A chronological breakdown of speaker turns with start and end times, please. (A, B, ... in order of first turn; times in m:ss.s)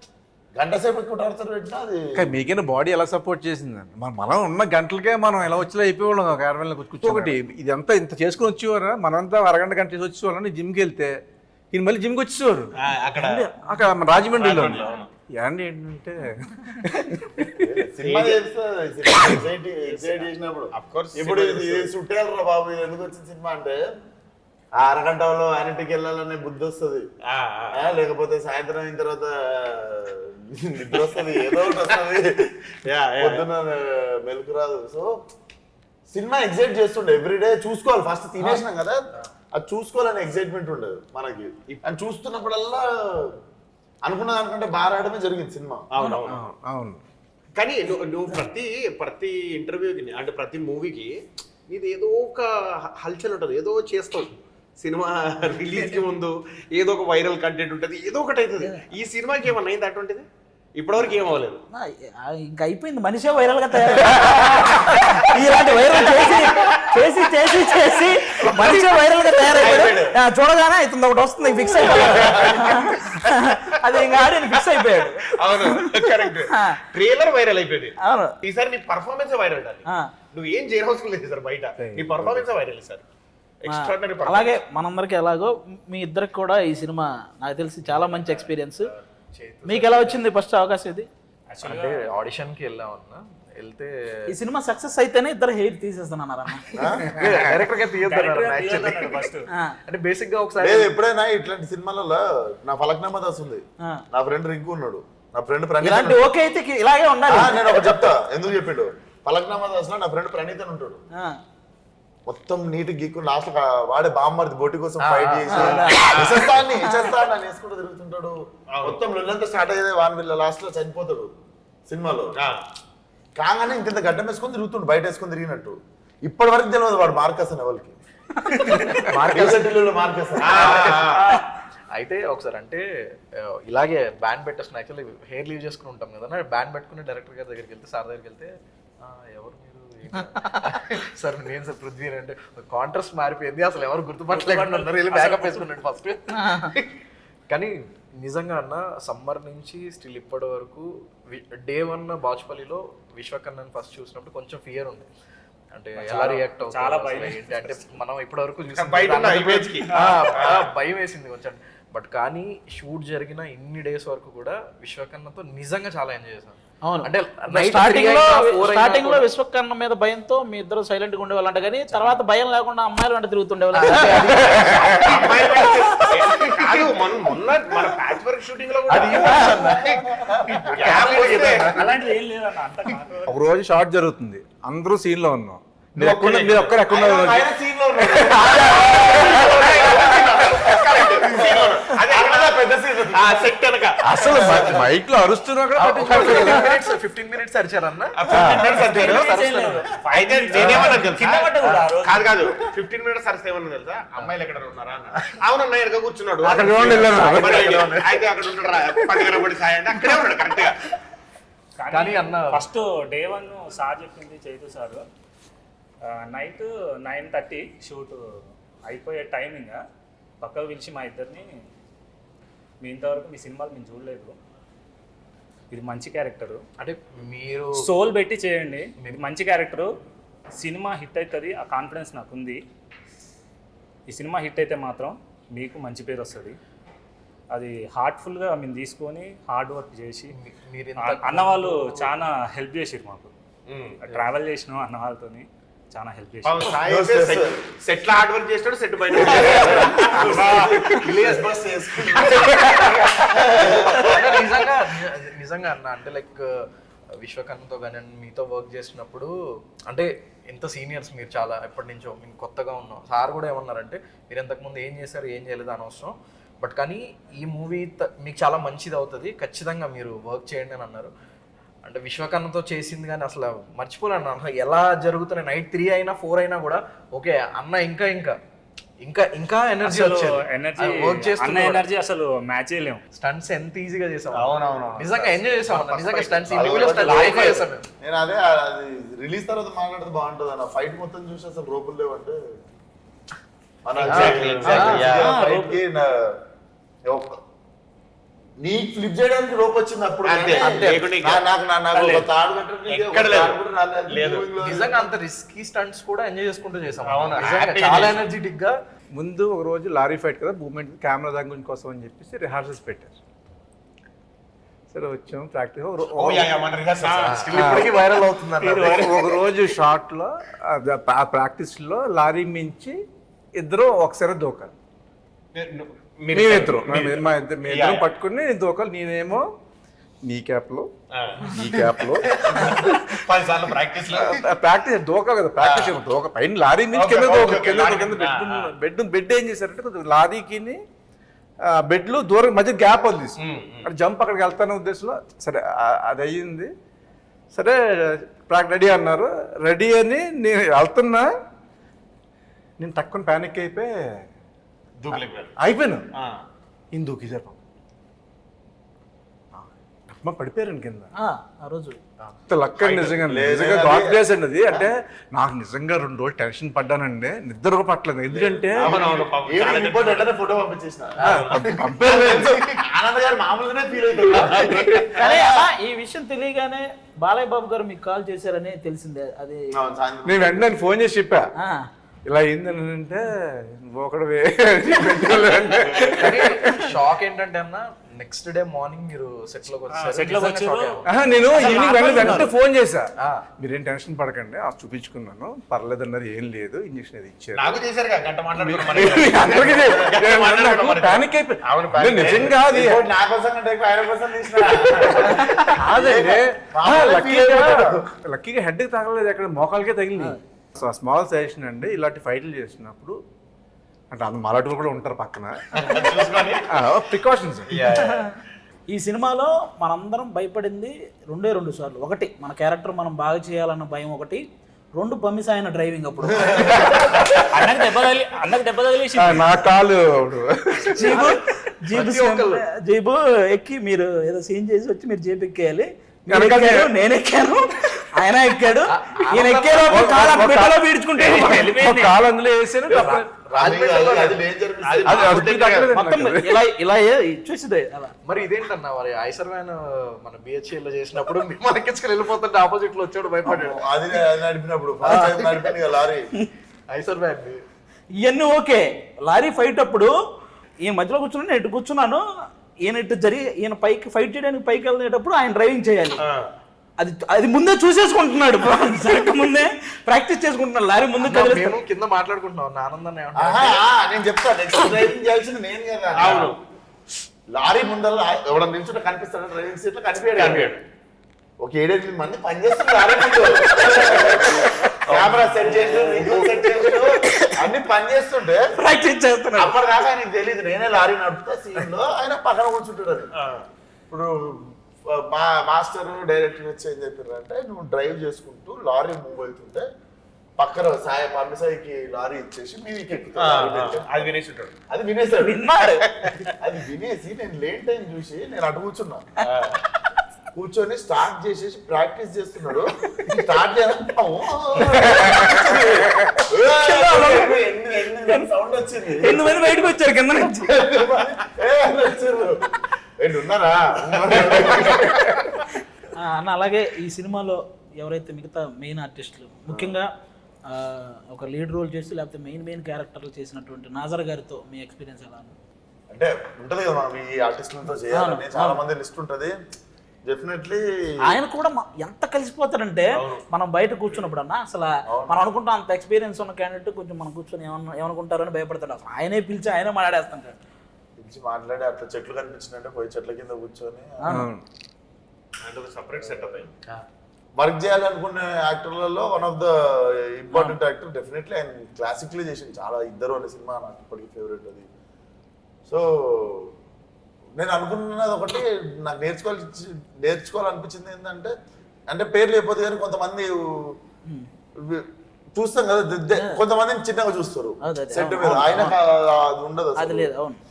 0:00.6-0:02.3 A
0:02.2-0:11.2 B
0:11.7-0:12.7 B
0:12.8-0:13.5 C
0:13.2-0:13.9 D
0:13.6-0:17.7 B
0:14.3-0:15.1 C
0:17.6-0:23.8 A
0:18.0-0:18.4 C
0:19.9-0:21.9 C
0:24.8-0:27.1 A
0:27.2-0:27.8 C
0:27.7-0:32.6 A
0:32.8-0:33.5 C
0:33.2-0:35.2 A
0:36.1-0:43.4 A
0:44.0-0:45.9 A
0:45.9-0:46.5 C
0:46.2-0:47.0 B
0:47.6-1:01.6 C
0:58.6-0:58.9 D
1:01.7-1:15.9 D
1:04.0-1:08.8 C
1:09.4-1:10.2 C
1:11.8-1:13.0 C
1:12.2-1:12.5 A
1:13.6-1:23.0 C
1:16.5-1:16.8 D
1:18.0-1:18.4 D
1:21.8-1:22.5 B
1:23.6-1:24.6 C
1:23.7-1:28.9 D
1:29.3-1:30.2 E
1:29.7-1:31.1 D
1:31.5-1:32.1 F
1:31.6-1:33.9 E
1:34.3-1:36.7 D
1:36.7-1:37.2 A
1:37.0-1:40.9 E
1:37.1-1:37.5 B
1:38.0-1:39.5 F
1:39.5-1:39.8 D
1:40.6-1:46.3 A
1:45.8-1:48.0 D
1:47.3-1:51.0 A
1:52.3-2:01.3 A
1:55.0-1:55.8 E
1:55.5-1:56.2 D
1:55.9-1:56.5 C
1:58.7-1:59.0 C
2:01.9-2:02.4 A
2:03.4-2:08.0 A
2:08.5-2:08.9 D
2:08.9-2:09.8 E
2:09.2-2:11.0 A
2:10.4-2:11.4 E
2:10.4-2:11.4 C
2:11.9-2:26.9 E
2:20.4-2:20.7 D
2:24.4-2:25.6 F
2:26.3-2:26.8 D
2:27.5-2:35.1 E
2:35.8-2:49.3 E
2:36.0-2:37.8 F
2:38.7-2:40.7 C
2:39.9-2:40.3 F
2:46.8-2:54.7 D
2:51.9-2:52.2 E
2:53.8-2:55.5 E
2:54.3-2:55.1 B
2:54.8-3:01.9 C
2:55.7-2:56.4 D
2:58.9-3:00.0 E
2:59.2-2:59.7 D
3:00.2-3:01.4 A
3:00.8-3:01.7 B
3:01.0-3:03.3 F
3:03.3-3:07.4 B
3:06.0-3:13.6 A
3:06.0-3:06.8 C
3:08.1-3:09.6 B
3:08.5-3:12.6 C
3:13.1-3:14.8 C
3:14.0-3:16.8 B
3:14.2-3:14.8 A
3:15.8-3:19.9 E
3:16.1-3:16.5 C
3:18.2-3:19.4 C
3:18.3-3:18.6 B
3:18.7-3:19.9 D
3:19.0-3:21.5 F
3:20.1-3:21.5 C
3:20.7-3:22.3 D
3:22.0-3:30.9 C
3:26.4-3:28.0 B
3:26.8-3:28.1 E
3:29.1-3:29.4 B
3:31.8-3:35.0 F
3:31.9-3:32.7 E
3:36.1-3:38.2 F
3:38.9-3:39.8 F
3:40.4-3:41.5 F
3:42.8-3:44.4 F
3:45.7-3:46.6 F
3:46.8-3:47.8 E
3:47.8-3:49.9 F
3:50.6-3:52.6 F
3:54.1-3:56.6 F
3:57.5-4:00.4 F
4:00.3-4:02.1 E
4:01.0-4:03.3 F
4:03.7-4:04.2 C
4:04.0-4:06.7 F
4:06.4-4:13.2 C
4:06.9-4:07.6 A
4:09.1-4:14.4 A
4:11.0-4:11.5 E
4:13.6-4:19.3 E
4:19.9-4:31.1 E
4:31.8-4:38.4 E
4:39.0-4:41.9 E
4:39.8-4:43.0 F
4:43.1-4:47.9 E
4:44.3-4:47.7 C
4:46.5-4:52.4 A
4:53.8-4:56.4 A
4:54.0-4:55.3 C
4:54.1-4:55.1 E
4:54.7-4:55.8 D
4:57.1-4:57.4 A
4:58.6-5:05.1 A
5:00.2-5:01.4 C
5:00.6-5:01.1 E
5:02.0-5:02.2 F
5:02.9-5:04.5 C
5:04.6-5:08.8 E
5:07.0-5:08.2 C
5:09.2-5:13.2 B
5:14.9-5:16.7 B
5:16.1-5:19.0 C
5:17.0-5:17.3 F
5:17.0-5:19.2 E
5:17.5-5:18.0 B
5:18.6-5:19.6 F
5:18.8-5:23.0 B
5:23.6-5:24.7 B
5:25.5-5:28.1 C
5:26.3-5:29.5 B
5:30.3-5:30.9 B
5:31.1-5:34.4 C
5:31.4-5:33.3 B
5:34.1-5:40.8 B
5:35.6-5:36.0 C
5:36.9-5:38.7 C
5:41.7-5:46.7 B
5:43.4-5:43.9 C
5:47.5-5:51.3 B
5:52.8-5:54.2 B
5:55.0-5:55.6 C
5:55.1-5:56.1 B
5:56.1-5:56.4 C
5:56.9-5:57.6 B
5:59.5-6:01.1 B
6:01.2-6:02.0 D
6:02.5-6:09.0 B
6:03.0-6:04.9 A
6:08.3-6:11.2 A
6:08.8-6:10.3 C
6:11.2-6:11.7 C
6:11.2-6:12.7 B
6:11.2-6:11.6 E
6:11.9-6:15.6 A
6:14.4-6:15.2 C
6:15.2-6:19.7 D
6:19.8-6:20.7 A
6:20.2-6:21.5 B
6:21.6-6:21.9 D
6:22.3-6:27.0 B
6:26.0-6:32.4 E
6:29.9-6:31.0 F
6:31.0-6:37.8 B
6:31.5-6:32.5 C
6:33.2-6:33.4 E
6:37.6-6:42.6 C
6:38.6-6:43.0 B
6:42.2-6:48.0 A
6:45.6-6:53.2 B
6:54.1-6:55.6 B
6:55.7-6:56.8 C
6:56.7-6:57.8 B
6:57.7-6:58.3 C
6:58.9-7:04.4 D
7:05.0-7:07.3 D
7:06.3-7:06.9 A
7:07.2-7:09.6 F
7:09.2-7:11.2 B
7:10.9-7:22.1 D
7:11.0-7:11.3 E
7:11.9-7:12.6 E
7:16.3-7:16.9 B
7:18.9-7:20.4 E
7:19.8-7:23.3 B
7:22.9-7:24.4 E
7:22.9-7:25.9 A
7:24.8-7:25.9 C
7:25.0-7:26.6 B
7:25.9-7:28.1 D
7:28.2-7:33.8 E
7:33.4-7:36.3 A
7:35.0-7:35.7 E
7:36.9-7:37.6 E
7:38.2-7:40.2 D
7:40.8-7:42.2 D
7:42.8-7:46.2 D
7:47.0-7:51.8 D
7:51.2-7:53.8 E
7:53.4-7:56.5 A
7:56.1-7:56.6 C
7:57.5-8:00.8 A
8:00.4-8:00.8 C
8:01.6-8:08.7 A
8:05.1-8:06.6 C
8:07.0-8:07.5 D
8:08.8-8:09.8 D
8:09.6-8:13.3 A
8:13.4-8:13.6 C
8:14.1-8:19.9 A
8:20.6-8:24.3 A
8:23.4-8:24.8 C
8:24.9-8:25.8 A
8:25.4-8:26.1 D
8:26.5-8:29.3 A
8:29.4-8:29.8 C
8:30.5-8:39.6 A
8:36.7-8:38.5 D
8:39.2-8:40.7 D
8:40.7-8:42.7 A
8:43.2-8:45.4 A
8:46.2-8:50.1 D
8:49.7-8:50.0 A
8:50.7-8:55.5 D
8:56.1-8:59.6 A
8:58.1-8:58.8 D
9:00.3-9:00.8 A
9:01.3-9:10.6 D
9:03.1-9:03.4 C
9:05.1-9:05.4 A
9:11.2-9:14.3 A
9:14.3-9:14.6 B
9:15.6-9:16.7 C
9:17.6-9:24.9 A
9:20.5-9:20.8 D
9:25.9-9:26.7 A
9:27.6-9:31.5 A
9:32.1-9:34.0 A
9:34.8-9:40.3 A
9:37.8-9:39.0 D
9:40.0-9:40.6 D